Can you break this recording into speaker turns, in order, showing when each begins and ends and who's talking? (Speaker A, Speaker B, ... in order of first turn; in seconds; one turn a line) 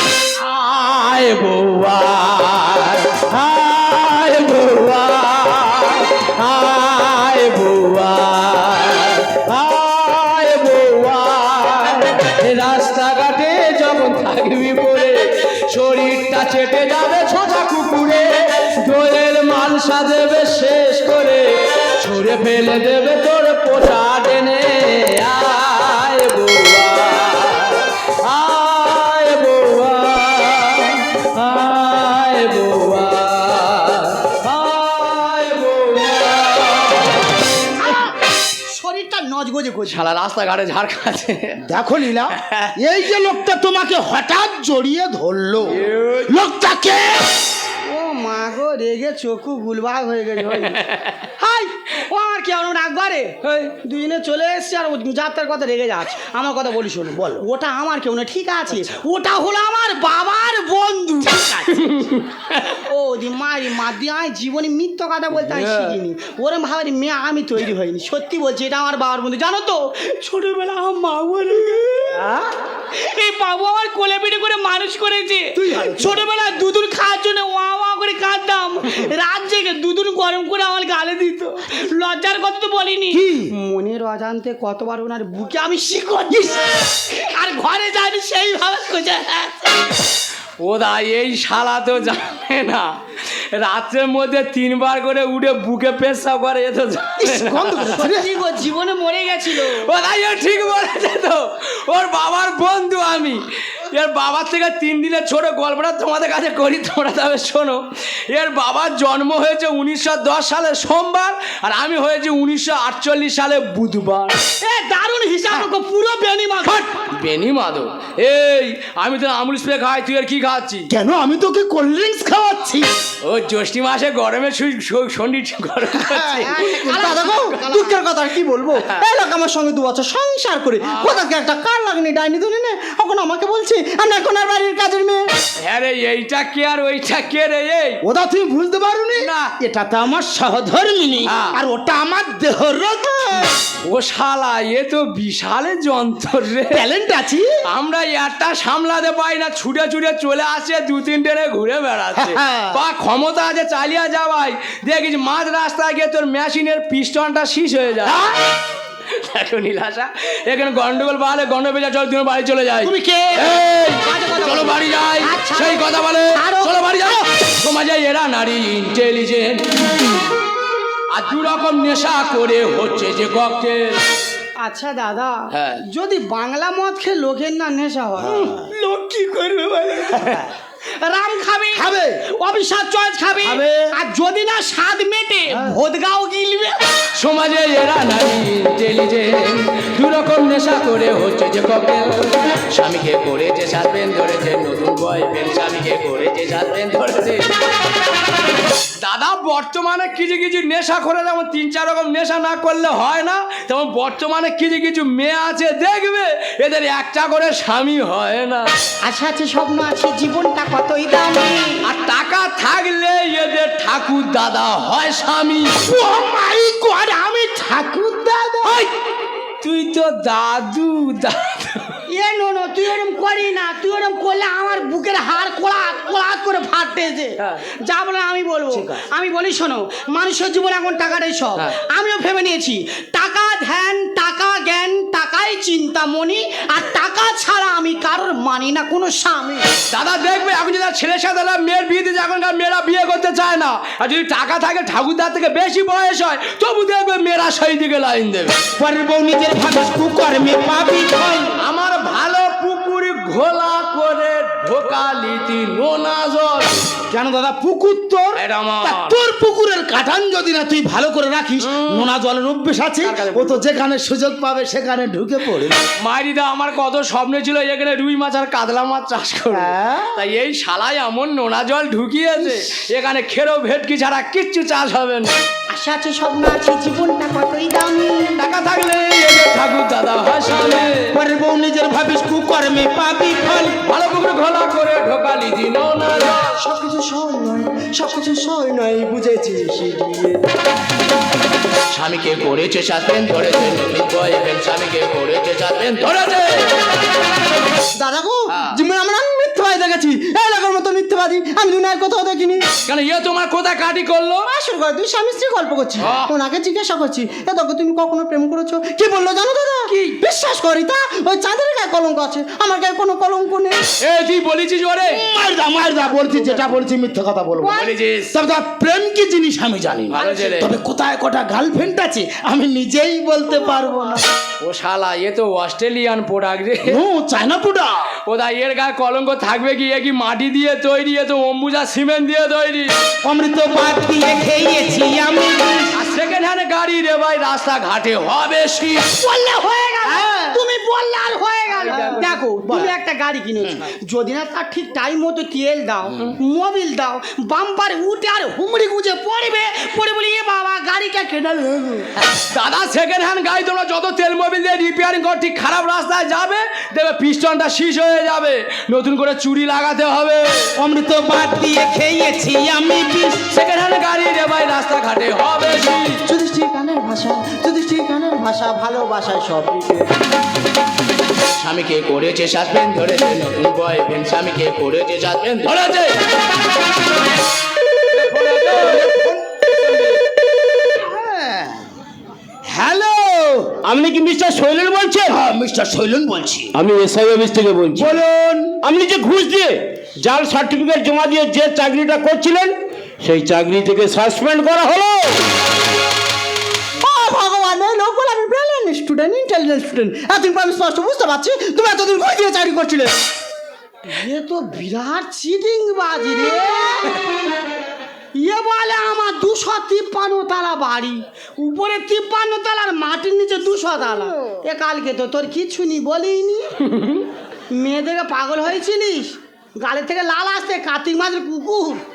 Speaker A: 0.2-15.2
Speaker A: 15.7-21.4
Speaker A: 22.0-37.4
Speaker B: 37.8-38.1
Speaker B: 38.7-40.0
Speaker A: 39.9-41.6
Speaker C: 41.6-47.2
Speaker A: 42.3-42.7
Speaker A: 45.7-46.3
Speaker B: 47.9-50.8
Speaker A: 50.5-51.1
Speaker B: 51.4-61.9
Speaker A: 53.4-53.7
Speaker C: 57.1-57.4
Speaker A: 61.8-62.6
Speaker B: 62.8-72.3
Speaker A: 65.4-66.0
Speaker B: 72.9-89.9
Speaker D: 75.7-76.1
Speaker C: 83.1-83.5
Speaker C: 86.3-86.6
Speaker A: 90.6-98.0
Speaker D: 97.2-98.4
Speaker B: 97.9-99.9
Speaker A: 99.7-114.3
Speaker B: 114.6-116.8
Speaker A: 116.6-120.9
Speaker C: 120.9-122.9
Speaker A: 123.2-127.5
Speaker D: 126.5-135.2
Speaker B: 126.5-127.9
Speaker A: 128.8-129.0
Speaker A: 135.6-138.0
Speaker C: 138.0-143.6
Speaker A: 139.2-139.5
Speaker A: 141.2-141.6
Speaker A: 143.8-146.8
Speaker C: 146.7-147.5
Speaker A: 147.7-158.2
Speaker C: 152.1-152.8
Speaker C: 158.1-158.4
Speaker A: 159.1-169.6
Speaker C: 162.8-163.2
Speaker B: 164.0-167.3
Speaker A: 171.1-174.0
Speaker B: 174.6-180.3
Speaker A: 175.5-175.8
Speaker C: 178.2-178.7
Speaker B: 181.0-181.9
Speaker C: 181.7-182.2
Speaker B: 182.4-186.8
Speaker C: 183.4-183.8
Speaker C: 185.5-185.8
Speaker A: 187.2-197.4
Speaker A: 199.0-208.7
Speaker B: 209.0-211.8
Speaker A: 211.8-215.8
Speaker C: 215.8-218.8
Speaker A: 219.6-221.9
Speaker B: 222.1-239.7
Speaker C: 228.7-229.1
Speaker A: 239.9-248.5
Speaker C: 248.8-251.6
Speaker A: 251.6-256.8
Speaker C: 257.1-265.8
Speaker A: 258.3-259.2
Speaker A: 261.6-262.1
Speaker A: 263.0-263.6
Speaker A: 266.0-275.3
Speaker C: 269.5-270.2
Speaker B: 275.7-278.4
Speaker A: 278.4-281.1
Speaker C: 281.1-283.8
Speaker A: 283.8-286.5
Speaker D: 286.6-290.4
Speaker A: 291.9-296.7
Speaker D: 297.9-302.6
Speaker A: 298.5-298.8
Speaker A: 302.9-304.5
Speaker D: 304.4-313.8
Speaker A: 306.0-306.3
Speaker A: 314.0-315.2
Speaker C: 315.1-324.2
Speaker A: 317.6-318.3
Speaker A: 320.1-320.7
Speaker B: 320.2-320.6
Speaker A: 324.6-327.0
Speaker C: 326.8-328.1
Speaker A: 328.3-332.9
Speaker C: 333.2-335.9
Speaker A: 335.9-339.1
Speaker B: 339.1-352.1
Speaker C: 340.1-340.5
Speaker C: 341.9-342.9
Speaker A: 352.2-360.7
Speaker C: 360.8-363.4
Speaker A: 363.5-366.2
Speaker D: 366.3-370.1
Speaker A: 371.6-376.2
Speaker A: 378.1-379.1
Speaker C: 378.6-379.6
Speaker C: 380.9-381.8
Speaker C: 382.6-383.8
Speaker E: 383.8-385.3
Speaker C: 385.3-386.7
Speaker E: 386.7-388.2
Speaker C: 387.9-388.8
Speaker E: 388.8-395.4
Speaker D: 397.0-403.1
Speaker B: 404.1-407.2
Speaker B: 408.4-416.7
Speaker A: 416.9-417.2
Speaker B: 417.7-422.0